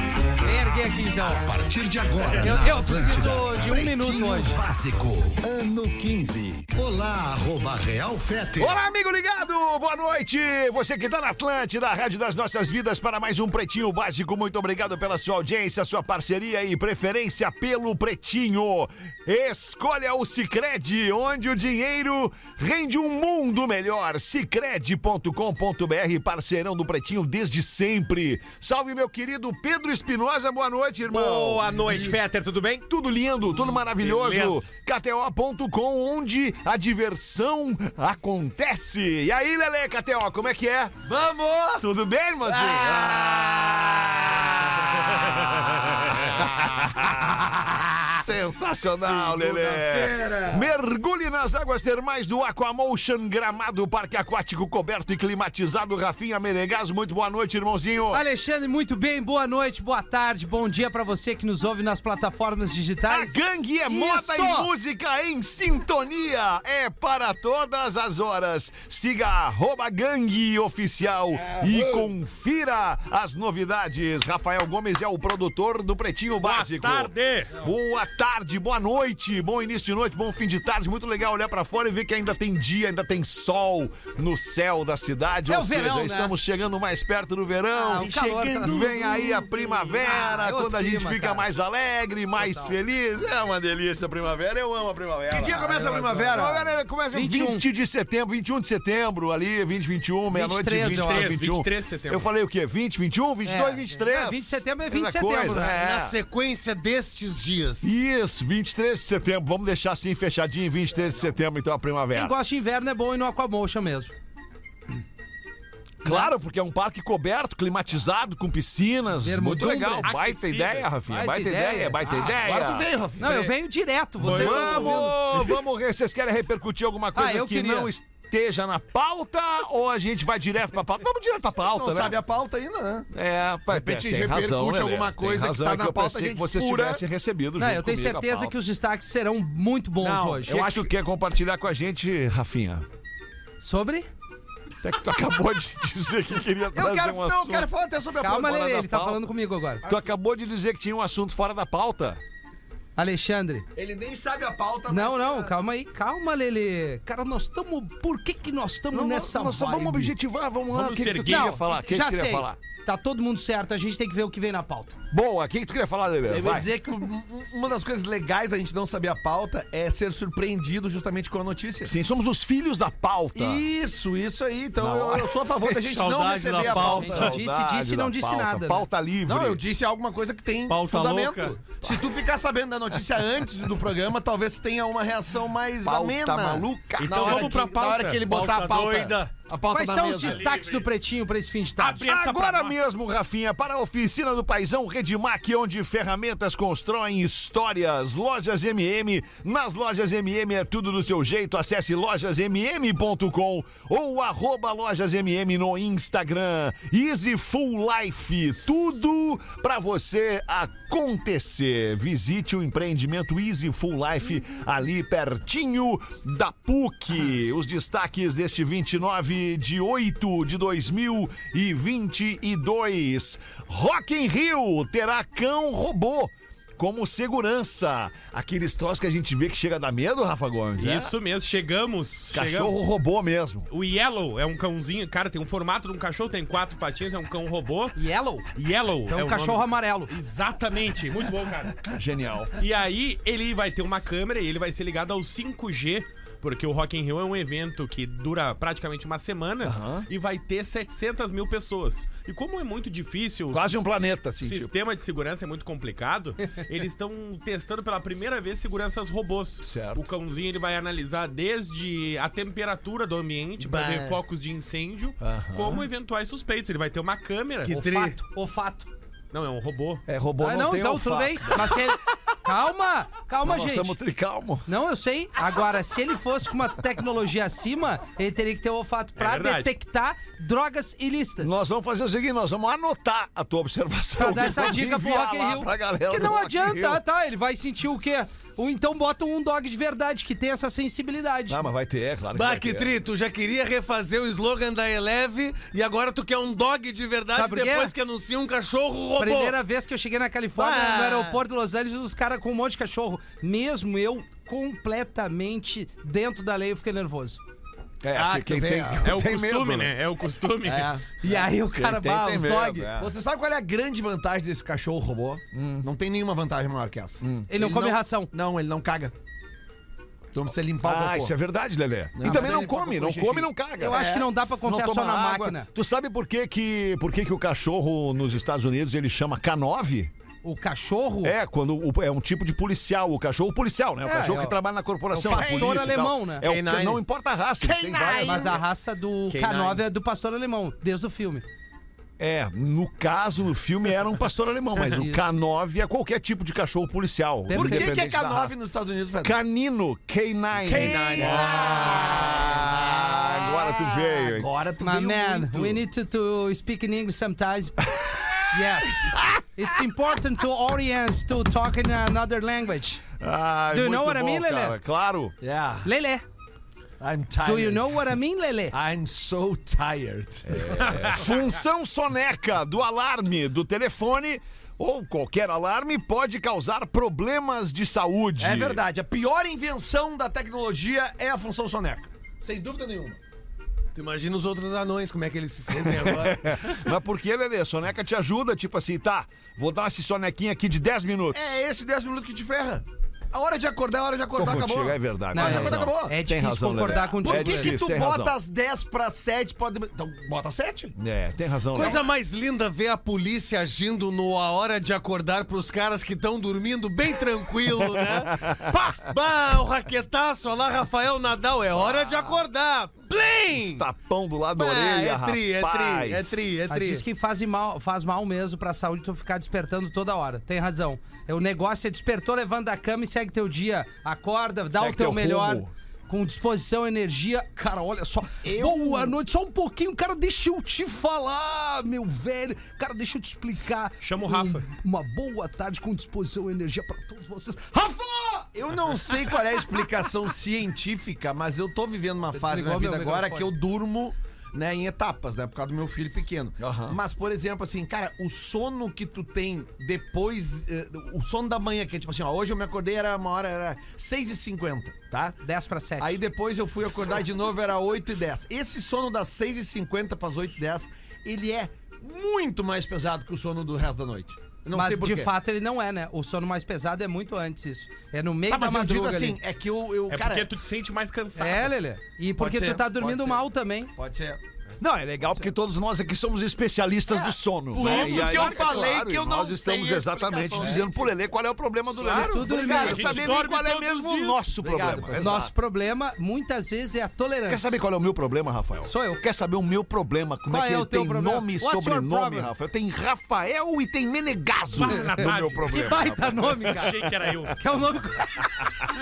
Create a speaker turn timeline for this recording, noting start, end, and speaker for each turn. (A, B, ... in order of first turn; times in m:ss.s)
0:00.4-0:01.5 A
0:01.4-0:08.8 B
0:02.2-0:02.7 C
0:02.4-0:04.6 A
0:08.6-0:32.2 D
0:31.1-0:32.8 E
0:32.9-0:41.0 D
0:34.0-0:34.7 E
0:41.0-0:41.8 F
0:41.8-0:58.2 D
0:42.4-0:46.4 F
0:49.0-0:50.7 F
0:58.1-1:04.7 A
1:03.1-1:46.2 D
1:16.4-1:17.6 C
1:25.5-1:26.3 A
1:27.7-1:29.2 A
1:29.8-1:31.4 A
1:32.4-1:32.7 A
1:35.3-1:36.6 F
1:37.1-1:37.6 A
1:40.3-1:41.3 A
1:40.9-1:42.3 C
1:43.4-1:45.8 A
1:45.7-1:47.9 E
1:47.8-1:52.3 D
1:52.1-1:54.1 A
1:56.0-2:02.9 D
1:56.0-1:56.3 A
1:59.2-2:00.1 A
2:00.0-2:00.9 C
2:01.1-2:02.0 A
2:02.0-2:03.5 F
2:03.2-2:05.2 A
2:04.2-2:12.2 D
2:04.2-2:05.6 C
2:04.3-2:04.9 F
2:07.1-2:07.9 A
2:11.6-2:13.1 F
2:13.1-2:18.5 D
2:13.7-2:17.0 F
2:17.6-2:20.6 A
2:20.0-2:20.9 F
2:20.4-2:22.8 D
2:23.6-2:24.1 A
2:24.8-2:27.7 D
2:26.7-2:28.7 F
2:28.2-2:29.8 A
2:28.3-2:29.2 D
2:29.8-2:30.1 F
2:29.8-2:32.2 D
2:33.0-2:33.7 A
2:33.7-2:35.5 F
2:34.9-2:40.1 A
2:38.9-2:42.6 D
2:40.7-2:41.5 C
2:41.2-2:45.0 A
2:45.1-2:46.7 D
2:46.3-2:51.9 F
2:51.8-2:53.6 D
2:53.3-2:57.3 F
2:54.8-2:55.4 D
2:55.6-2:57.3 E
2:56.6-2:58.8 A
2:56.9-2:59.6 D
2:59.2-3:10.4 F
3:00.6-3:01.6 E
3:05.8-3:07.4 D
3:07.0-3:08.3 C
3:07.1-3:07.6 E
3:08.2-3:09.3 E
3:09.7-3:12.1 A
3:10.2-3:10.8 C
3:11.8-3:12.8 C
3:12.0-3:51.1 D
3:50.8-3:52.8 C
3:52.3-3:53.7 D
3:53.7-3:58.0 C
3:58.0-3:58.5 A
3:58.5-4:01.8 C
3:59.1-4:00.1 A
4:01.9-4:02.5 D
4:02.6-4:13.8 C
4:09.6-4:10.1 D
4:13.5-4:14.7 D
4:14.4-4:27.9 C
4:19.6-4:20.0 D
4:23.6-4:24.2 F
4:25.2-4:25.8 D
4:27.6-4:28.9 A
4:27.7-4:28.1 E
4:29.3-4:30.0 C
4:30.1-4:31.7 D
4:30.4-4:34.0 A
4:33.4-4:34.7 D
4:34.7-4:41.6 A
4:39.2-4:39.7 C
4:41.4-4:47.0 D
4:44.2-4:51.6 A
4:51.5-4:52.9 D
4:52.3-4:59.6 E
4:57.3-4:57.9 A
4:59.2-5:07.4 A
5:00.6-5:01.4 E
5:08.0-5:09.9 D
5:08.1-5:09.1 F
5:09.0-5:11.0 C
5:10.6-5:11.0 F
5:11.2-5:12.9 A
5:11.2-5:13.1 D
5:13.0-5:19.1 F
5:15.5-5:15.9 D
5:17.2-5:17.5 D
5:17.5-5:18.3 A
5:20.3-5:21.3 F
5:20.8-5:30.1 D
5:22.2-5:24.3 F
5:22.2-5:22.5 A
5:23.8-5:25.7 A
5:30.4-5:31.4 A
5:31.2-5:38.6 D
5:34.0-5:34.6 A
5:35.1-5:36.5 A
5:35.3-5:36.0 F
5:36.4-5:37.0 E
5:37.6-5:38.6 F
5:37.7-5:38.4 E
5:38.2-5:41.4 A
5:39.3-5:39.8 E
5:42.2-5:48.5 D
5:44.8-5:45.2 A
5:47.5-5:48.0 A
5:47.5-5:49.4 F
5:49.2-5:54.5 D
5:50.5-5:55.8 F
5:54.8-5:57.8 A
5:58.5-6:03.0 A
6:03.2-6:05.4 D
6:03.7-6:04.8 A
6:05.4-6:05.9 F
6:05.8-6:06.2 A
6:07.0-6:08.0 F
6:07.4-6:08.7 A
6:08.7-6:11.3 F
6:10.4-6:18.8 D
6:18.4-6:23.2 F
6:23.9-6:26.5 E
6:25.9-6:31.6 D
6:31.3-6:36.2 F
6:34.3-6:38.4 D
6:35.3-6:37.8 A
6:36.7-6:40.9 F
6:41.0-6:42.0 D
6:41.7-6:53.8 E
6:41.8-6:42.0 F
6:48.0-6:48.7 D
6:51.7-6:52.4 D
6:53.5-6:56.7 D
6:54.6-6:57.0 E
6:56.7-7:18.5 A
7:04.7-7:05.7 D
7:08.4-7:09.2 F
7:14.0-7:14.6 C
7:18.5-7:35.4 F
7:22.3-7:23.5 A
7:26.6-7:27.0 D
7:35.4-7:36.2 A
7:36.0-7:45.3 F
7:44.7-7:49.4 A
7:48.5-7:50.5 F
7:50.1-7:51.7 C
7:51.4-7:53.9 A
7:52.4-7:54.4 F
7:54.8-8:05.5 D
7:57.1-8:01.1 F
7:57.7-7:58.8 C
8:02.0-8:04.5 C
8:02.0-8:03.3 F
8:02.1-8:03.2 A
8:04.6-8:05.5 F
8:05.2-8:07.7 A
8:07.5-8:16.9 D
8:08.8-8:09.2 A
8:10.5-8:12.5 A
8:14.7-8:17.6 C
8:14.9-8:17.0 A
8:17.6-8:18.5 A